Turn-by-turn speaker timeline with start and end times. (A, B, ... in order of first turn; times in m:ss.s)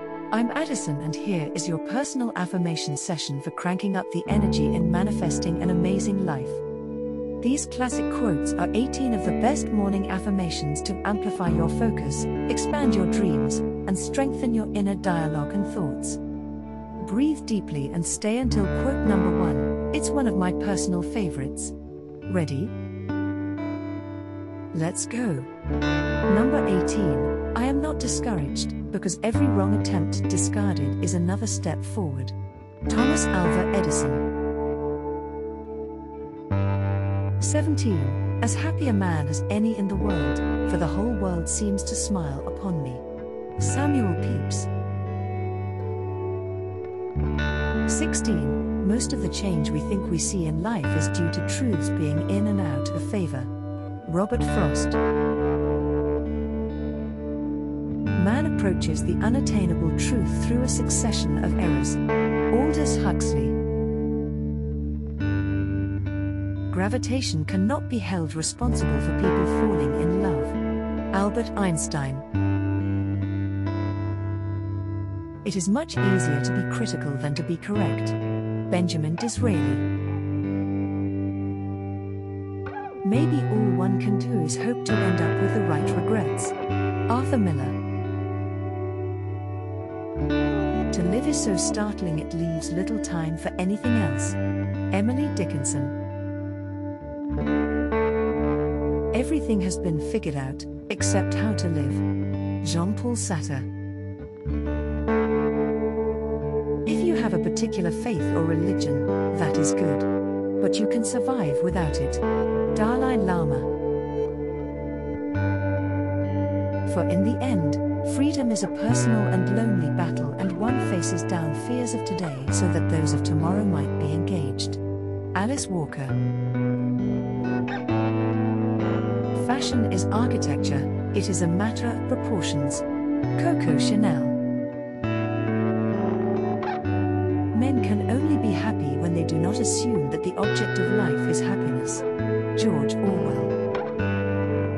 0:00.3-0:06.6 A
0:07.4-0:16.2 A
0:17.0-0:21.7 A
0:22.3-0:22.7 A
0:24.7-0:25.5 A
0:26.3-0:32.3 A
0:32.9-0:34.2 A
0:37.4-0:43.0 A
0:43.6-0:44.7 A
0:47.8-0:53.5 A
0:54.0-0:55.0 A
0:58.2-1:02.0 A
1:02.5-1:03.6 A
1:06.7-1:10.6 A
1:11.1-1:12.2 A
1:15.4-1:18.2 A
1:18.7-1:19.9 A
1:23.0-1:26.5 A
1:27.1-1:27.8 A
1:30.9-1:34.4 A
1:34.9-1:36.0 A
1:39.1-1:42.0 A
1:42.6-1:43.7 A
1:46.8-1:50.1 A
1:50.6-1:53.7 A
1:56.8-2:04.8 A
2:05.3-2:06.2 A
2:09.3-2:12.8 A
2:13.4-2:14.4 A
2:17.5-2:22.0 A
2:22.6-2:23.6 A